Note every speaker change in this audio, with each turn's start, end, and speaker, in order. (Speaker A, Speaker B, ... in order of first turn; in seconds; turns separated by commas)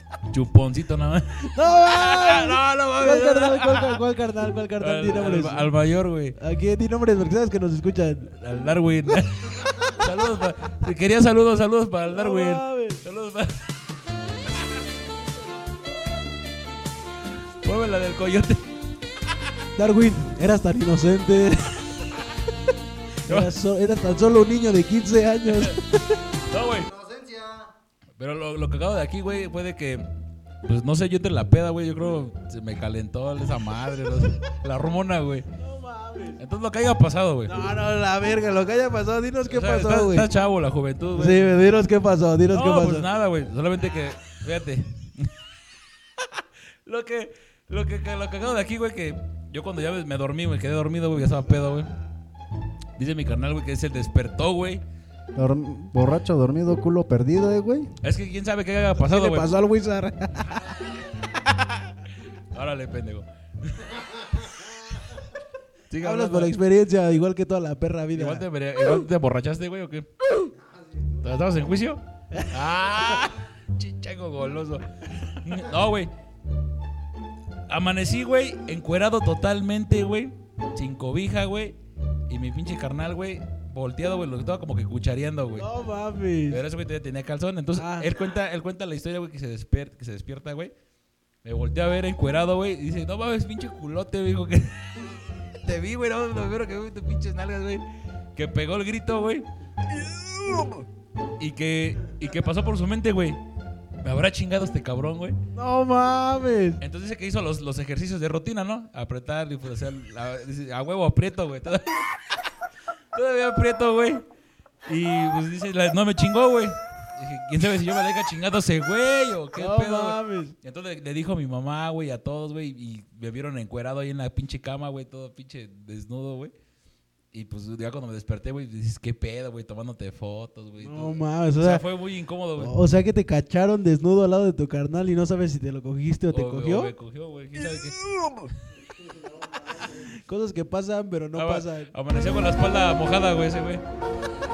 Speaker A: 0.3-4.0, Speaker B: 1.5-5.7, Speaker A: 4.8-6.4, Speaker B: 6.4-8.3, Speaker A: 8.3-13.7, Speaker B: 12.1-13.0, Speaker A: 17.6-18.6, Speaker B: 19.8-21.9, Speaker B: 23.2-26.2, Speaker A: 23.2-23.5, Speaker A: 25.5-25.8, Speaker A: 26.5-26.9, Speaker C: 26.9-27.7, Speaker A: 28.2-30.1, Speaker A: 30.6-35.5, Speaker B: 35.6-36.4, Speaker A: 36.4-37.5, Speaker B: 37.5-40.3, Speaker A: 39.5-41.6, Speaker B: 41.1-43.0, Speaker A: 42.5-45.3, Speaker A: 46.8-51.9, Speaker A: 53.0-54.8, Speaker C: 55.4-57.9, Speaker A: 58.0-59.5, Speaker B: 59.0-60.6, Speaker A: 61.3-65.0, Speaker A: 65.9-66.5, Speaker B: 66.0-68.4, Speaker A: 68.2-70.1, Speaker A: 71.2-76.1, Speaker A: 77.7-81.8, Speaker A: 82.3-85.7, Speaker B: 85.6-86.6, Speaker A: 86.5-90.7, Speaker B: 87.8-88.1, Speaker A: 91.4-97.8, Speaker A: 98.3-99.5, Speaker B: 100.0-100.8, Speaker A: 101.4-103.4, Speaker A: 104.0-105.4, Speaker B: 105.5-106.8, Speaker A: 106.8-112.3, Speaker A: 113.1-114.2, Speaker A: 114.8-126.5, Speaker B: 119.5-120.5, Speaker A: 127.3-132.7, Speaker B: 130.8-131.8, Speaker B: 132.6-136.9, Speaker A: 136.3-138.0, Speaker B: 140.0-141.9, Speaker A: 141.3-143.8